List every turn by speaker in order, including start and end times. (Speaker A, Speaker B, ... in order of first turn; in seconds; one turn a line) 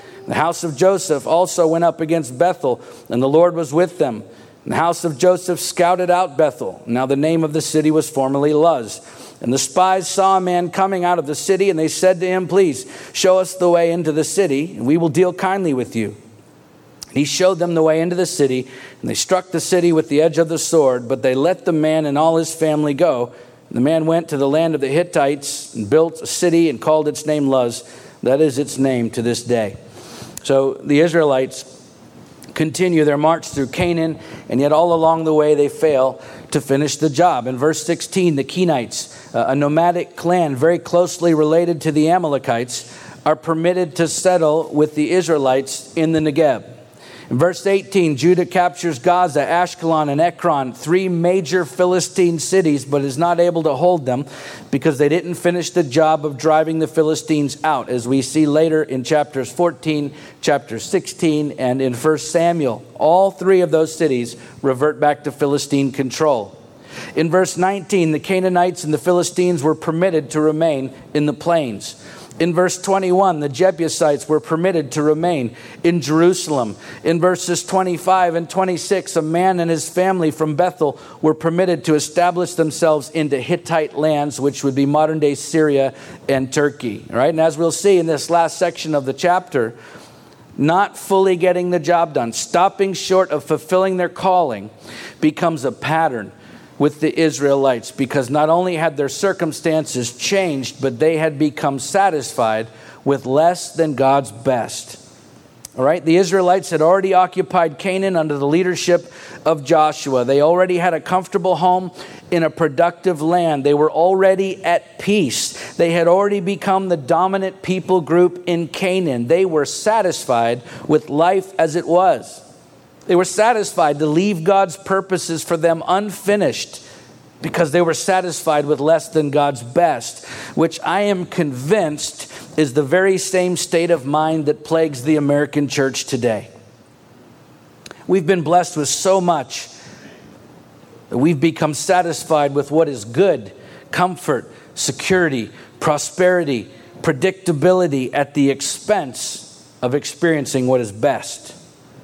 Speaker A: 0.3-16.1
Speaker A: 17.1-29.8
Speaker A: 30.4-31.7
Speaker A: 32.5-46.6
Speaker A: 47.3-66.5
Speaker A: 67.1-89.8
Speaker A: 90.6-105.0
Speaker A: 105.8-122.4
Speaker A: 123.1-126.8
Speaker A: 127.4-136.5
Speaker A: 138.1-139.7
Speaker A: 141.1-151.6